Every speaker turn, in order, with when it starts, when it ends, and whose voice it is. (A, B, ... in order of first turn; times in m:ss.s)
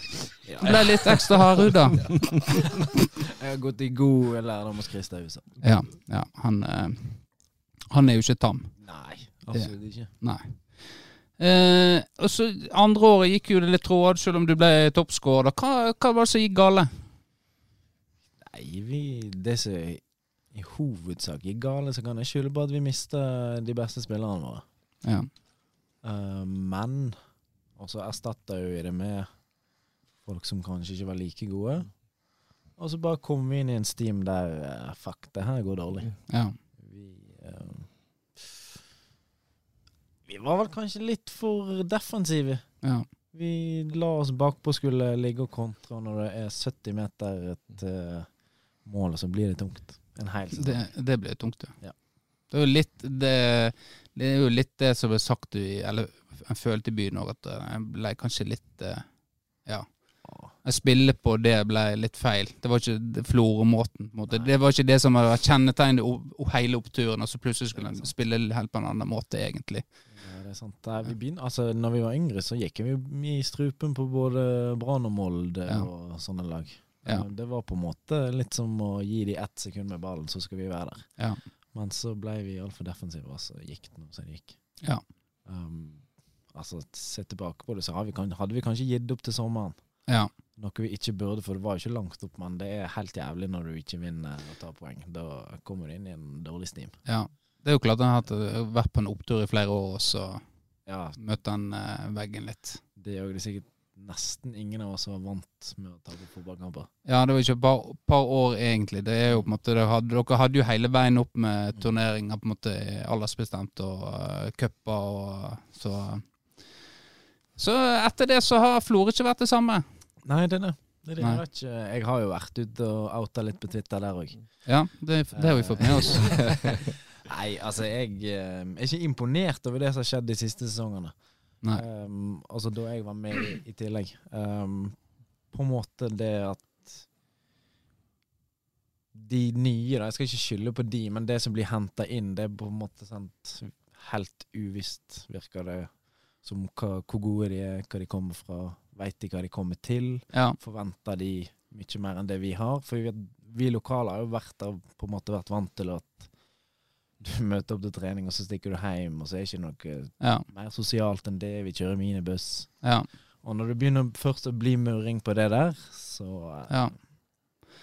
0:00.5-0:01.2 A
0:00.6-0:02.5 B
0:03.2-0:05.5 A
0:05.6-0:07.2 B
0:07.9-0:08.7 B
0:08.8-0:10.1 A
0:09.5-0:10.6 B
0:11.4-0:16.9 B
0:18.4-0:24.6 A
0:25.0-0:25.3 B
0:26.0-0:27.2 A
0:27.8-0:29.3 A
0:30.2-0:31.9 A
0:32.8-0:36.1 A
0:36.3-0:36.6 B
0:36.8-0:37.9 A
0:40.3-0:42.6 A
0:43.3-0:48.3 A
0:48.8-0:50.9 A
0:50.5-0:51.8 B
0:52.5-0:59.0 B
1:00.2-1:00.5 A
1:00.6-1:09.8 B
1:07.8-1:08.1 A
1:10.2-1:21.1 A
1:21.7-1:24.6 A
1:25.5-1:29.8 A
1:30.6-1:37.0 A
1:37.1-1:40.4 B
1:40.9-1:41.2 A
1:41.2-1:42.8 B
1:43.0-1:46.9 A
1:47.1-1:56.2 B
1:57.6-1:59.8 B
2:00.2-2:04.4 A
2:04.7-2:06.7 B
2:05.3-2:11.2 A
2:11.7-2:15.0 A
2:15.5-2:17.1 A
2:19.1-2:36.3 A
2:37.2-2:42.7 A
2:40.2-2:40.5 B
2:43.4-2:46.9 A